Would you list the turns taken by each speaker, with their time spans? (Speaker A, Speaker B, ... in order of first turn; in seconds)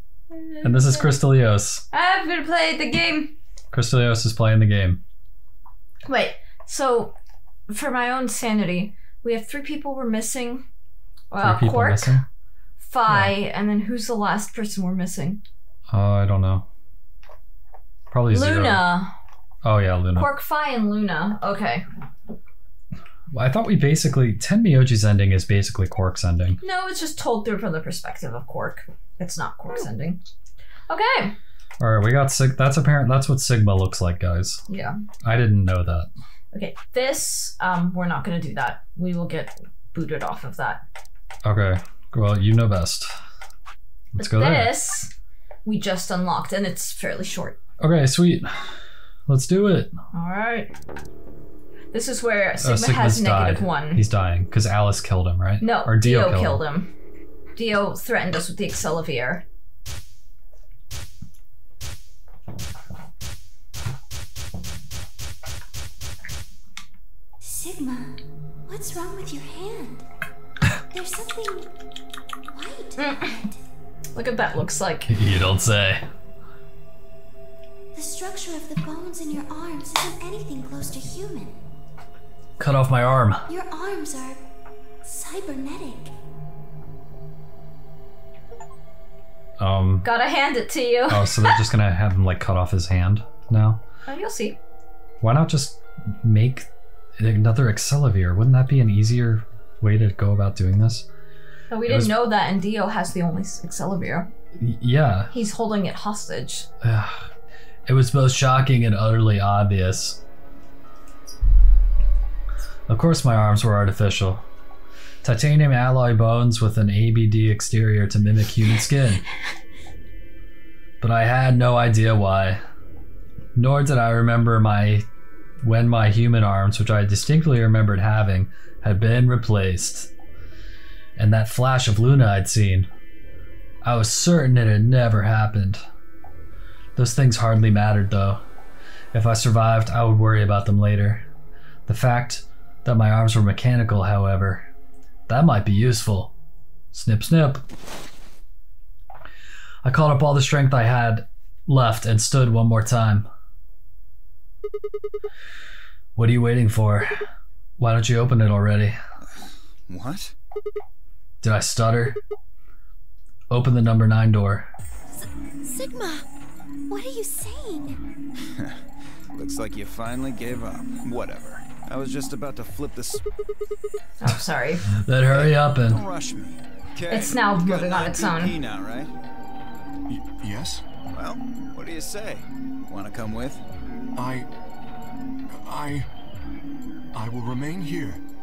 Speaker A: 0.3-1.1, 1.9-3.4, 6.0-7.1, 7.7-10.7, 11.3-12.2, 12.8-15.4, 18.3-19.1, 20.1-21.8, 26.6-30.2, 30.9-31.4, 34.7-34.9, 36.5-40.8, 44.2-45.1, 45.6-47.6, 50.1-50.7, 51.9-54.0, 55.6-56.9, 57.5-59.4, 73.0-73.3, 74.1-75.1, 90.0-91.5, 94.0-94.6, 101.7-104.3, 105.3-106.7, 174.2-174.9, 177.1-178.5
Speaker B: 0.6-1.8, 3.7-5.0, 11.4-12.2, 13.1-13.3, 15.9-16.7, 18.1-18.9, 19.6-20.3, 23.3-26.6, 31.8-34.6, 35.2-36.1, 41.4-43.1, 44.1-44.7, 47.8-48.7, 49.3-49.9, 52.6-56.6, 75.1-76.0, 82.6-83.4, 89.6-90.1, 91.1-93.8, 95.2-101.1, 101.8-102.2, 104.6-105.3, 106.8-107.3, 107.8-110.2, 112.9-114.4, 115.2-119.2, 121.0-122.6, 123.5-125.0, 125.6-130.1, 131.2-132.9, 133.8-135.8, 136.9-138.4, 139.1-141.2, 141.9-144.7, 145.3-146.3, 146.9-147.6, 149.8-153.3, 156.2-157.1, 157.8-158.9, 161.4-162.2, 163.5-164.7, 174.9-176.0
Speaker C: 67.4-70.0, 70.9-71.7, 72.5-73.6, 77.9-81.6, 83.5-84.4, 85.0-86.1, 165.1-166.2, 166.9-168.0
Speaker D: 159.9-160.3, 169.3-173.2, 175.3-179.1, 181.1-183.6
Speaker E: 180.1-180.8, 184.2-184.5, 185.5-186.1, 187.1-188.2